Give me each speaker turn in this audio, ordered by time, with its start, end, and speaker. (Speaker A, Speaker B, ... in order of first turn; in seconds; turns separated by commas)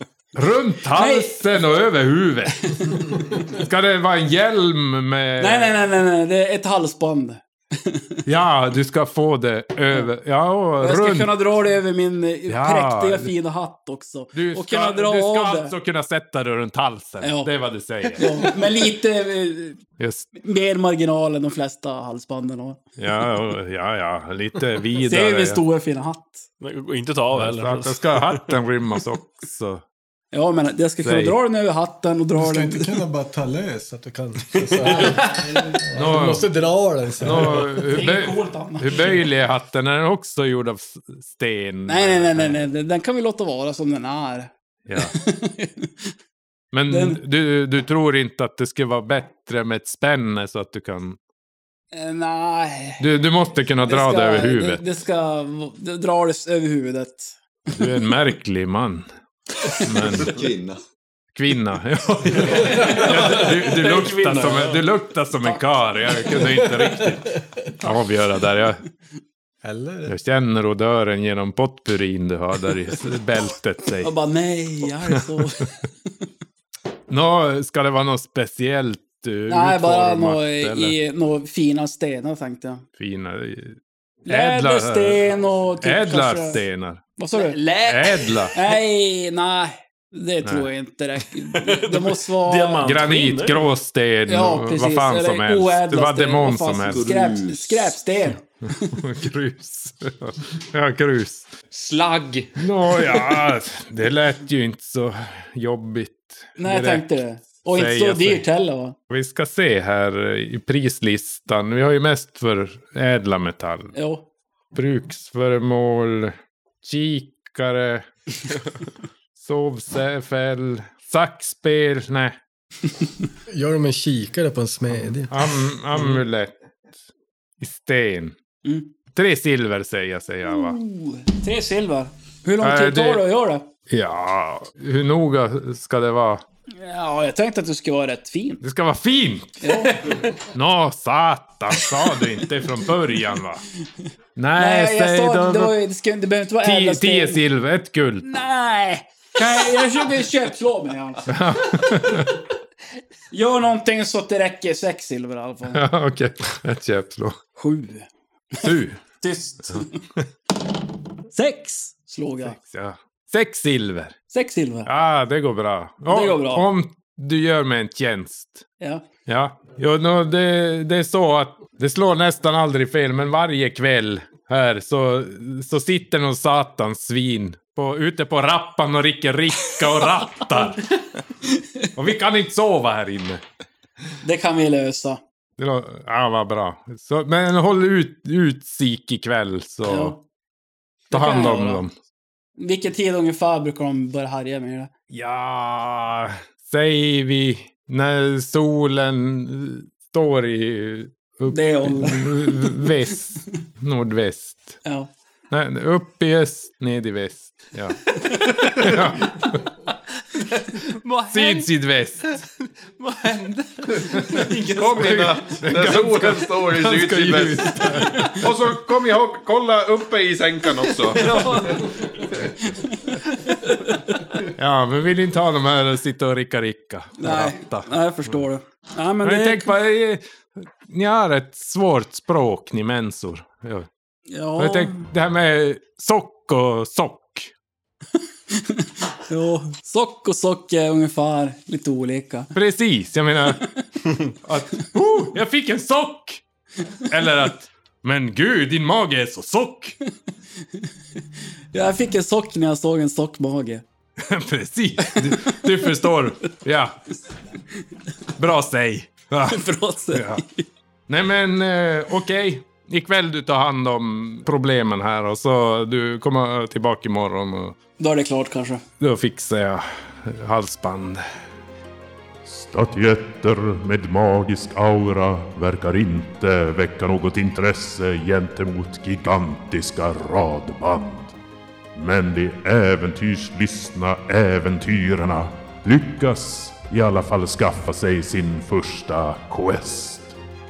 Speaker A: 0.3-5.8, Speaker B: 0.9-1.4, Speaker B: 2.7-3.4, Speaker B: 5.4-8.2, Speaker A: 8.2-11.3, Speaker B: 10.8-15.7, Speaker A: 12.5-13.3, Speaker A: 14.3-18.3, Speaker B: 17.2-17.5, Speaker B: 18.0-19.8, Speaker A: 20.0-20.3, Speaker B: 20.4-22.8, Speaker A: 23.0-25.6, Speaker B: 25.0-26.5, Speaker C: 26.6-28.6, Speaker A: 27.3-29.8, Speaker B: 30.3-33.0, Speaker A: 31.0-31.4, Speaker D: 32.4-37.7, Speaker C: 34.7-35.2, Speaker B: 34.8-35.8, Speaker A: 35.9-36.5, Speaker A: 37.2-42.6, Speaker B: 37.9-39.2, Speaker B: 41.9-46.1, Speaker A: 44.9-45.1, Speaker A: 46.7-51.2, Speaker B: 46.9-47.2, Speaker B: 51.9-53.0, Speaker A: 53.0-54.8, Speaker B: 53.8-57.9, Speaker A: 57.7-59.1, Speaker A: 59.7-60.5, Speaker E: 59.8-60.8, Speaker A: 61.3-68.8, Speaker C: 62.5-64.8, Speaker B: 62.6-63.0, Speaker D: 69.6-70.1, Speaker A: 70.0-74.1, Speaker B: 74.0-75.8, Speaker A: 75.1-75.5, Speaker A: 77.1-80.9, Speaker B: 79.5-82.8, Speaker A: 83.0-85.2, Speaker B: 84.3-86.6, Speaker A: 85.8-87.0, Speaker B: 87.2-87.6, Speaker C: 87.3-88.4, Speaker A: 87.8-88.6, Speaker B: 88.5-92.9, Speaker C: 91.5-93.7, Speaker A: 92.8-97.1, Speaker B: 94.3-99.0, Speaker E: 96.9-98.0, Speaker A: 98.9-101.5, Speaker F: 101.7-102.6, Speaker A: 102.6-108.4, Speaker B: 106.6-108.9, Speaker A: 109.1-113.9, Speaker B: 113.9-114.2, Speaker A: 114.7-118.6, Speaker A: 119.3-122.4, Speaker D: 123.5-125.3, Speaker A: 125.0-126.5, Speaker A: 127.6-128.3, Speaker B: 128.6-128.9, Speaker A: 129.1-130.8, Speaker B: 130.4-133.7, Speaker A: 132.6-133.2, Speaker A: 133.9-136.4, Speaker B: 136.7-138.6, Speaker A: 138.6-143.6, Speaker B: 139.6-140.2, Speaker B: 141.8-142.1, Speaker A: 144.3-145.8, Speaker B: 144.6-147.4, Speaker A: 146.6-148.3, Speaker B: 148.2-152.2, Speaker A: 151.2-152.4, Speaker B: 153.3-155.8, Speaker A: 155.7-157.4, Speaker B: 157.6-160.0, Speaker A: 158.6-159.0, Speaker B: 161.3-162.6, Speaker A: 162.4-164.2, Speaker B: 164.3-164.9, Speaker A: 164.8-168.6, Speaker B: 166.1-166.7, Speaker A: 169.2-180.8, Speaker B: 181.4-181.9, Speaker A: 181.9-183.4, Speaker B: 184.2-185.2, Speaker A: 185.6-190.1, Speaker B: 189.8-190.2, Speaker B: 191.1-191.8, Speaker A: 191.1-191.9, Speaker B: 192.6-194.9, Speaker A: 195.1-204.8, Speaker B: 201.5-202.9, Speaker B: 204.8-205.1, Speaker A: 205.5-209.7, Speaker F: 211.0-211.6, Speaker A: 211.3-212.4, Speaker F: 213.0-215.2, Speaker G: 214.1-221.3, Speaker A: 214.1-218.6, Speaker F: 221.2-221.8, Speaker B: 222.6-223.8, Speaker A: 224.5-227.9, Speaker B: 227.2-229.7, Speaker A: 229.2-233.9, Speaker B: 234.3-235.0, Speaker A: 234.6-237.5, Speaker B: 238.5-242.5, Speaker A: 242.5-243.6, Speaker A: 244.4-246.4, Speaker A: 247.0-250.0, Speaker B: 251.7-253.8, Speaker A: 254.2-257.0, Speaker B: 255.3-255.6, Speaker A: 258.4-260.4, Speaker B: 259.4-260.6, Speaker A: 261.1-267.8, Speaker B: 268.0-268.8, Speaker A: 269.0-271.2, Speaker H: 272.5-281.3, Speaker H: 281.9-290.3